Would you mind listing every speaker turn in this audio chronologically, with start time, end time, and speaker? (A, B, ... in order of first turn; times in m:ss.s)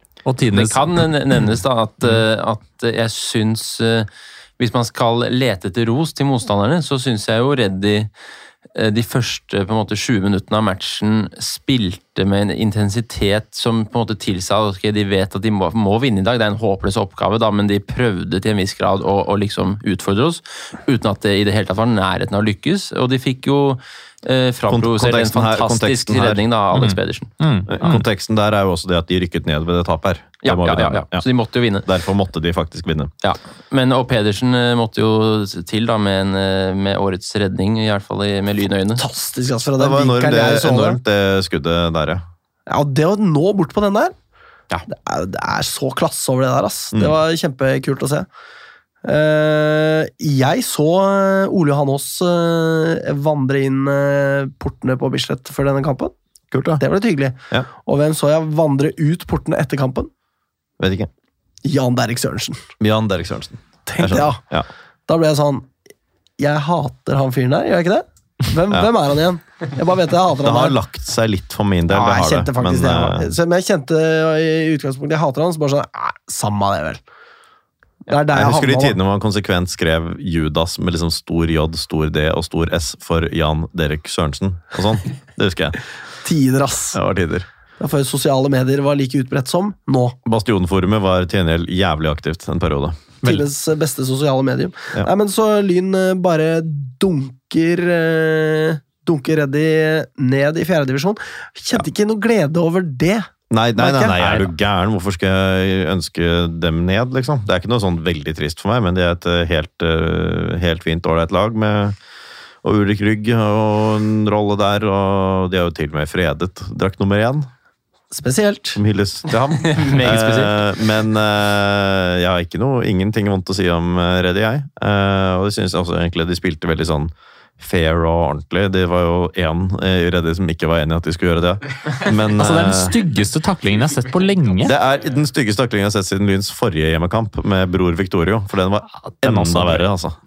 0:00.2-0:01.0 A
0:00.5-0:08.1 B
0:08.7-0:27.3 B
0:24.7-0:26.4 C
0:26.7-0:28.0 A
0:27.7-0:31.2 C
0:30.4-0:31.9 B
0:31.8-0:33.1 C
0:33.2-0:39.0 B
0:39.0-0:41.0 D
0:39.7-0:42.2 C
0:42.7-0:44.1 D
0:44.9-0:48.3 D
0:49.0-0:56.1 D
0:56.5-0:56.8 C
0:56.8-1:00.1 D
1:00.8-1:01.1 C
1:01.6-1:02.6 D
1:02.8-1:04.7 C
1:03.9-1:04.4 D
1:05.1-1:05.7 D
1:06.4-1:10.8 D
1:10.4-1:13.3 C
1:11.9-1:17.0 D
1:18.1-1:19.0 D
1:18.3-1:25.8 C
1:26.2-1:27.0 D
1:26.9-1:27.5 C
1:27.8-1:30.2 D
1:30.2-1:33.2 C
1:33.2-1:44.4 D
1:43.5-1:52.0 C
1:52.6-1:57.5 C
1:58.1-1:58.8 D
1:58.7-2:13.0 C
1:59.7-2:00.6 B
2:12.4-2:14.8 A
2:14.6-2:20.2 C
2:19.1-2:19.8 A